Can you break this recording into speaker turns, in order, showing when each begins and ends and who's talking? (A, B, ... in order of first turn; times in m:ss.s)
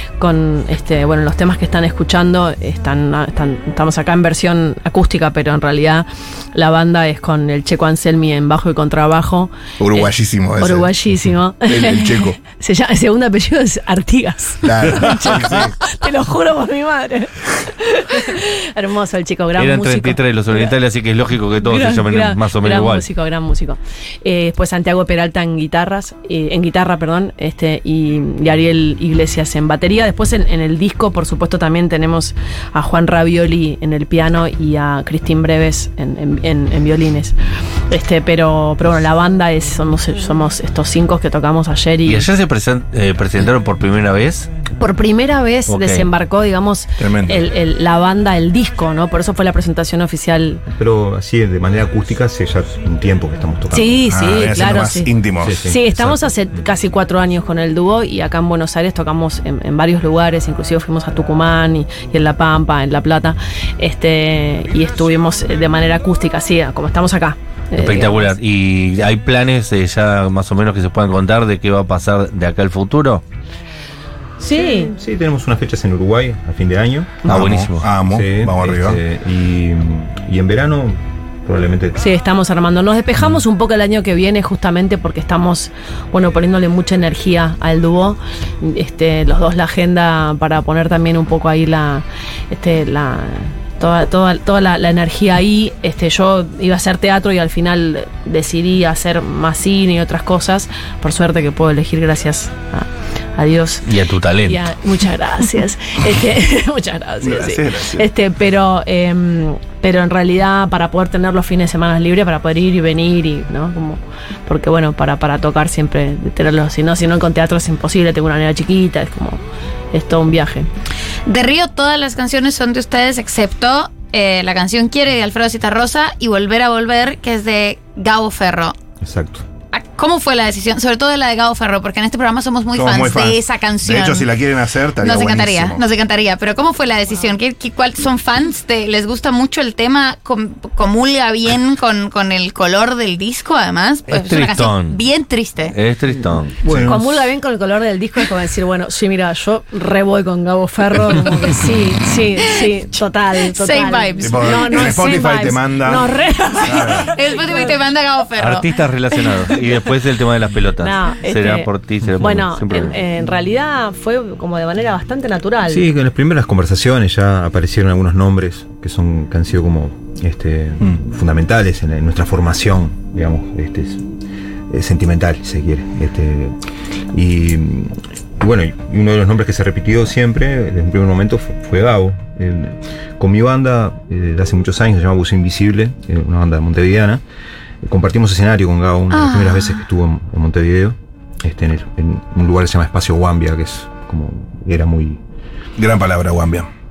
0:00.2-0:20.7 A
0:09.8-0:10.9 B
0:11.6-0:12.4 B
0:14.6-0:15.7 B
0:19.6-0:23.0 C
0:21.6-0:37.3 A
0:37.9-0:42.3 A
0:42.0-0:44.5 C
0:44.8-0:50.6 A
0:45.7-0:46.0 C
0:47.0-0:47.4 B
0:50.7-0:54.0 D
0:53.7-0:55.1 A
0:54.1-0:55.7 B
0:55.4-0:56.0 D
0:55.6-1:08.3 A
1:07.8-1:13.2 C
1:14.4-1:14.9 A
1:14.5-1:17.3 D
1:17.2-1:17.9 C
1:17.2-1:19.0 B
1:18.0-1:22.0 D
1:22.0-1:43.9 A
1:43.9-1:44.7 C
1:44.4-1:59.4 A
1:47.2-1:48.1 B
1:59.9-2:00.7 A
2:01.2-2:08.8 E
2:09.0-2:09.4 D
2:09.7-2:14.4 E
2:12.7-2:15.8 B
2:15.0-2:25.8 E
2:24.1-2:25.0 C
2:25.7-2:26.5 C
2:26.6-2:27.3 D
2:26.6-2:37.7 A
2:33.4-2:35.0 E
2:34.2-2:37.1 B
2:37.0-2:38.8 E
2:38.4-2:43.0 C
2:40.8-2:45.8 A
2:45.6-2:54.0 D
2:54.7-2:56.5 D
2:57.1-3:07.2 D
3:07.8-3:15.2 D
3:09.1-3:09.8 E
3:15.8-3:16.7 B